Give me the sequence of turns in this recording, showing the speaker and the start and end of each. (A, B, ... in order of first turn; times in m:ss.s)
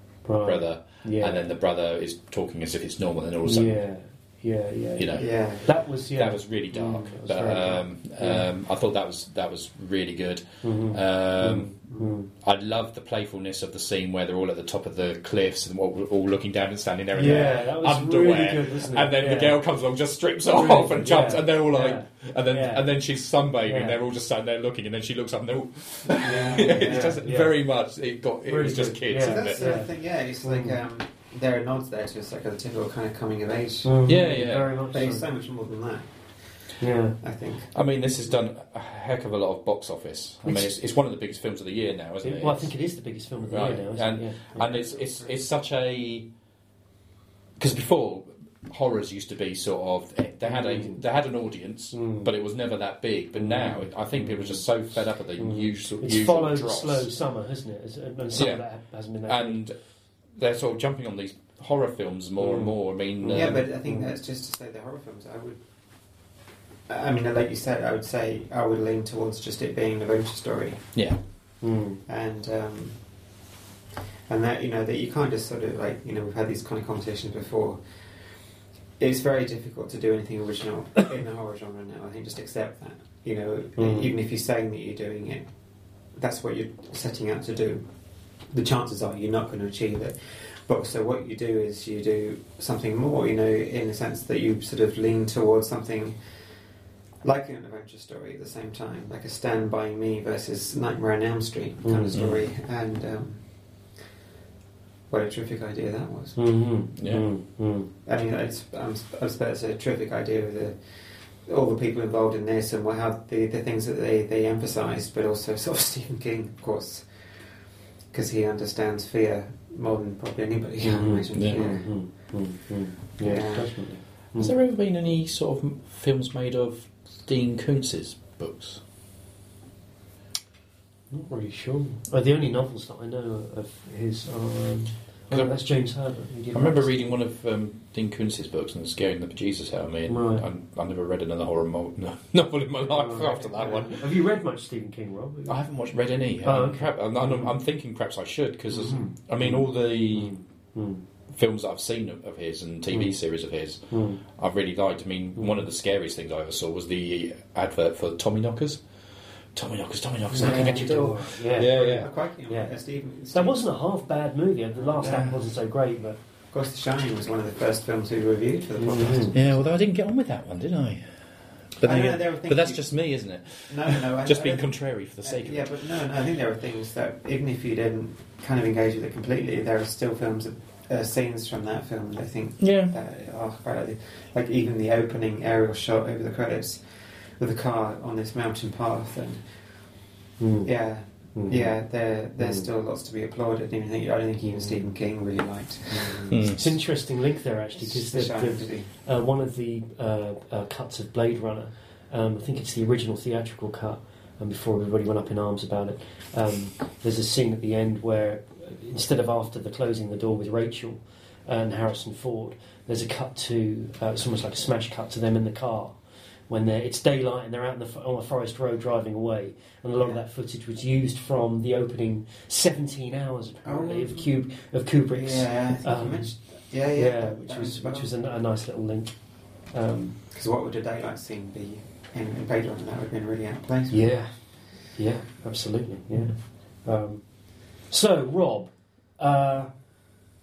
0:00.2-0:01.4 A
0:00.4-0:03.8 B
0:03.4-0:08.5 A
0:05.0-0:05.3 B
0:05.1-0:05.7 C
0:06.2-0:11.8 B
0:10.6-0:12.3 A
0:12.4-0:29.6 B
0:17.1-0:19.6 A
0:20.5-0:22.8 A
0:23.7-0:24.0 A
0:26.2-0:27.2 C
0:26.2-0:27.5 A
0:28.4-0:29.9 A
0:29.2-0:34.0 C
0:30.4-0:30.8 A
0:33.8-0:35.2 A
0:34.0-0:34.7 B
0:34.9-0:36.1 C
0:36.8-0:37.2 A
0:37.2-0:37.7 C
0:37.7-0:42.7 B
0:40.4-0:40.7 A
0:42.2-0:44.6 A
0:43.5-0:46.3 B
0:44.6-0:45.3 C
0:47.6-0:57.1 B
0:50.4-0:51.0 A
0:51.9-0:52.3 A
0:53.4-0:54.6 A
0:55.4-0:59.6 A
0:58.4-0:58.6 B
0:59.3-0:59.7 B
1:00.4-1:03.6 B
1:02.4-1:04.1 A
1:03.3-1:05.6 C
1:06.9-1:10.8 C
1:11.6-1:12.0 A
1:12.1-1:13.0 C
1:14.3-1:17.8 C
1:19.0-1:25.4 C
1:23.8-1:24.1 A
1:26.2-1:27.8 C
1:28.5-1:36.2 C
1:37.2-1:43.4 C
1:41.8-1:42.2 A
1:42.1-1:42.4 B
1:45.1-1:46.4 C
1:46.4-1:47.9 A
1:47.0-1:47.3 B
1:48.0-1:50.8 C
1:51.4-1:57.0 C
1:58.1-2:01.8 C
2:00.8-2:04.5 A
2:01.3-2:01.6 B
2:03.2-2:03.8 C
2:04.4-2:08.8 B
2:11.1-2:17.1 A
2:15.3-2:15.6 B
2:16.5-2:24.1 B
2:20.1-2:20.4 A
2:22.9-2:25.6 A
2:23.6-2:23.9 C
2:25.5-2:30.4 B
2:26.4-2:27.5 A
2:28.7-2:31.0 A
2:31.3-2:38.8 B
2:32.9-2:33.2 A
2:33.9-2:34.2 A
2:39.5-2:42.1 B
2:40.3-2:41.0 C
2:40.3-2:42.7 A
2:41.6-2:43.6 C
2:43.3-2:46.2 A
2:45.0-2:45.3 C
2:45.0-2:45.4 B
2:46.5-2:49.6 C
2:48.8-2:49.4 A
2:49.3-2:51.0 B
2:51.7-2:55.7 B
2:51.8-2:52.8 C
2:53.7-2:54.7 C
2:55.2-3:09.4 C
3:02.6-3:02.9 B
3:10.4-3:10.7 A
3:10.6-3:16.3 C
3:11.3-3:11.7 A
3:12.4-3:12.7 A
3:14.4-3:14.8 A
3:15.9-3:36.0 A
3:16.3-3:16.7 B
3:17.7-3:18.9 C
3:36.5-3:46.3 A
3:43.6-3:44.3 C
3:45.1-3:48.1 C
3:46.9-3:49.1 A
3:49.7-3:50.2 A
3:50.3-3:54.0 C
3:53.9-3:54.3 A
3:54.9-3:57.2 A
3:57.9-3:59.7 A